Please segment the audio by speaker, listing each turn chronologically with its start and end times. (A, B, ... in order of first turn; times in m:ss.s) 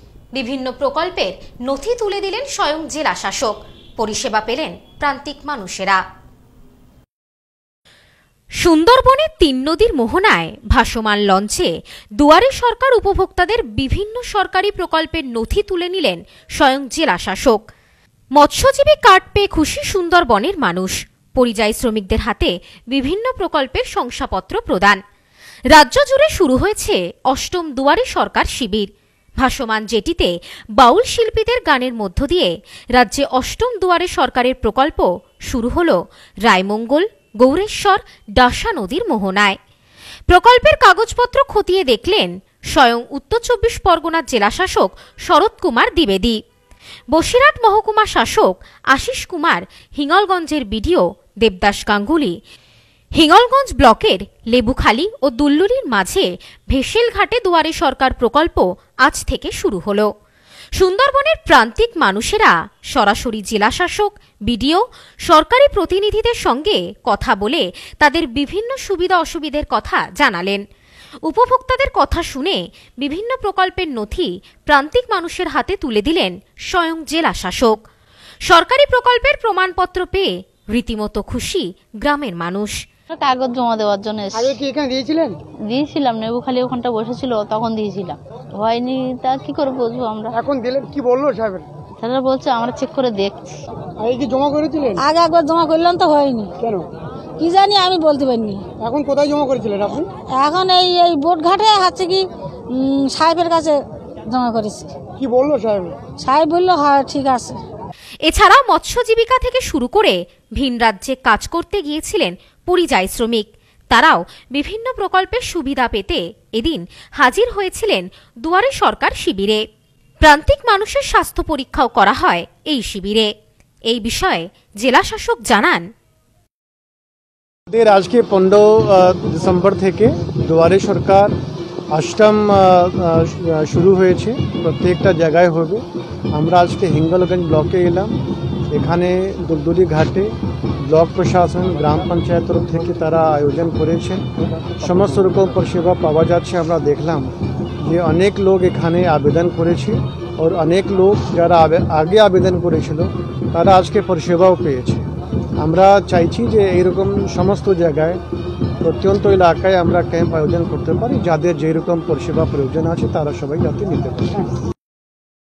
0:00.3-0:06.0 A
0:08.6-0:17.6 A
0:18.3-0:25.0 A
0:25.7-0:39.6 A
0:40.3-0:46.4 A
0:47.1-0:52.4 A
0:53.1-1:00.1 A
1:00.7-1:10.6 A
1:11.2-1:17.8 A
1:18.4-1:22.8 A
1:23.1-1:24.6 B
1:24.3-1:25.4 C
1:25.7-1:30.3 B
1:30.3-1:31.7 C
1:32.0-1:33.6 B
1:34.0-1:35.0 C
1:35.0-1:36.5 D
1:36.6-1:36.9 C
1:37.4-1:38.6 D
1:38.8-1:40.1 C
1:40.3-1:44.9 D
1:45.2-1:46.0 C
1:46.2-1:47.6 D
1:48.2-1:59.6 A
2:00.2-2:03.3 A
2:03.9-2:05.9 A
2:07.7-2:11.3 E
2:11.9-2:15.8 E
2:16.3-2:18.1 E
2:18.7-2:20.3 E
2:20.9-2:24.2 E
2:24.8-2:27.3 E
2:27.8-2:35.0 E
2:35.6-2:38.2 E
2:38.8-2:44.4 E